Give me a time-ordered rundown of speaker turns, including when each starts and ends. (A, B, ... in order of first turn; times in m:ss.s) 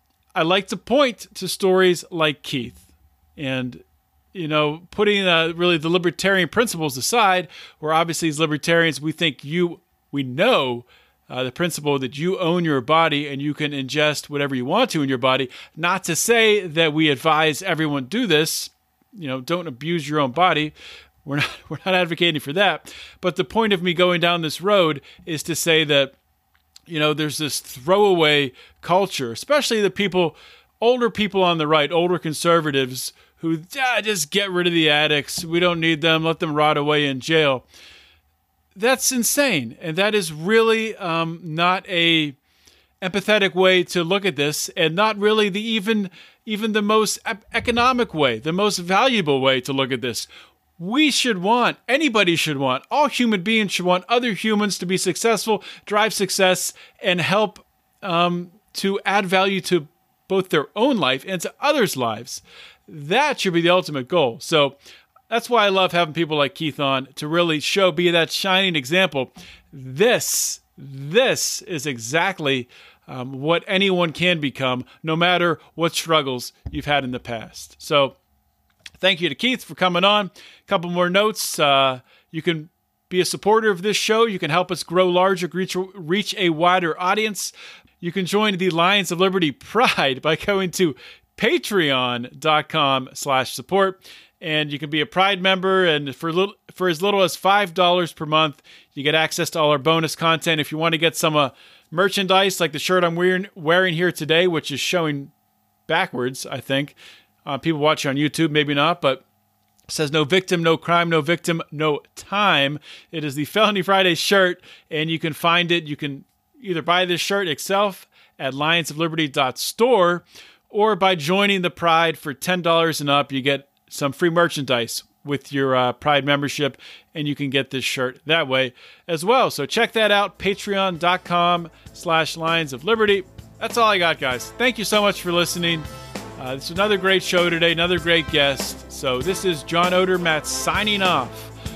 0:00.3-0:02.8 A
0:03.4-0:03.8 A
0:04.3-0:20.7 A
0:21.2-0:26.1 A
0:26.9-0:37.6 A
0:38.7-0:42.4 A
0:43.0-1:04.8 A
1:05.3-1:18.2 A
1:19.0-1:45.3 A
1:45.9-1:49.2 A
1:49.9-2:15.8 A
2:16.4-2:21.5 A